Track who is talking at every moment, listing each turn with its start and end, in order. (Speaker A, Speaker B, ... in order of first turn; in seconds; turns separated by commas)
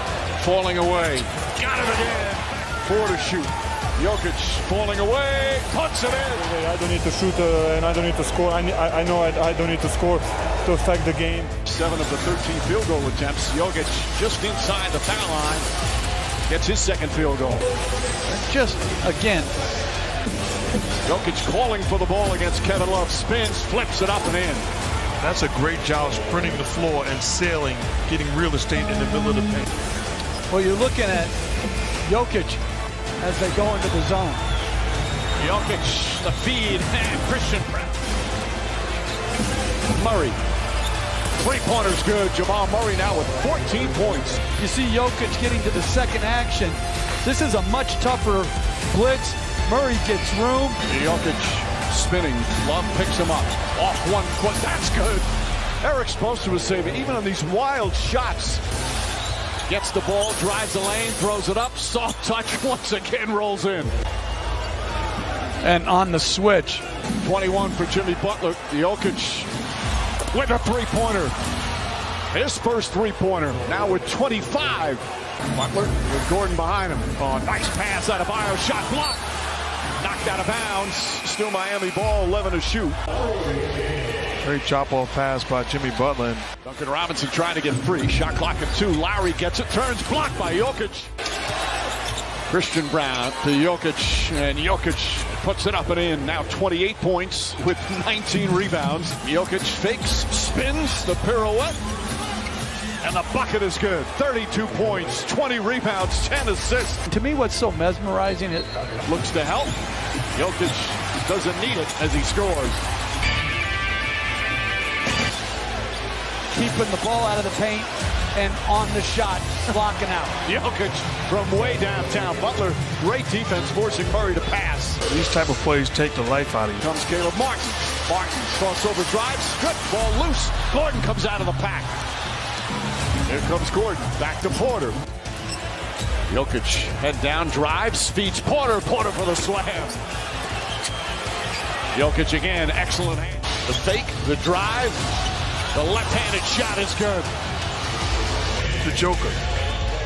Speaker A: 0.4-6.4, Speaker B: 6.4-11.5, Speaker A: 11.6-15.7, Speaker A: 16.5-17.6, Speaker C: 18.2-19.5, Speaker A: 21.0-24.6, Speaker D: 25.2-29.6, Speaker C: 30.5-31.3, Speaker C: 32.0-32.6, Speaker C: 33.2-34.4, Speaker A: 35.4-38.0, Speaker A: 39.9-40.4, Speaker A: 41.4-44.4, Speaker C: 44.6-50.8, Speaker A: 50.9-55.2, Speaker A: 55.8-58.6, Speaker A: 59.7-63.9, Speaker C: 65.6-66.8, Speaker A: 67.2-69.5, Speaker A: 70.3-71.3, Speaker A: 72.3-79.2, Speaker A: 80.0-83.0, Speaker D: 84.4-86.5, Speaker A: 86.6-91.1, Speaker A: 92.5-101.8, Speaker A: 103.0-107.0, Speaker C: 107.1-108.9, Speaker A: 109.0-109.8, Speaker A: 110.3-112.8, Speaker C: 116.5-120.3, Speaker A: 120.4-125.0, Speaker D: 125.1-126.8, Speaker A: 126.8-131.9, Speaker A: 133.2-135.0, Speaker A: 136.3-140.0, Speaker A: 141.9-145.0, Speaker A: 145.7-147.3, Speaker D: 148.8-149.4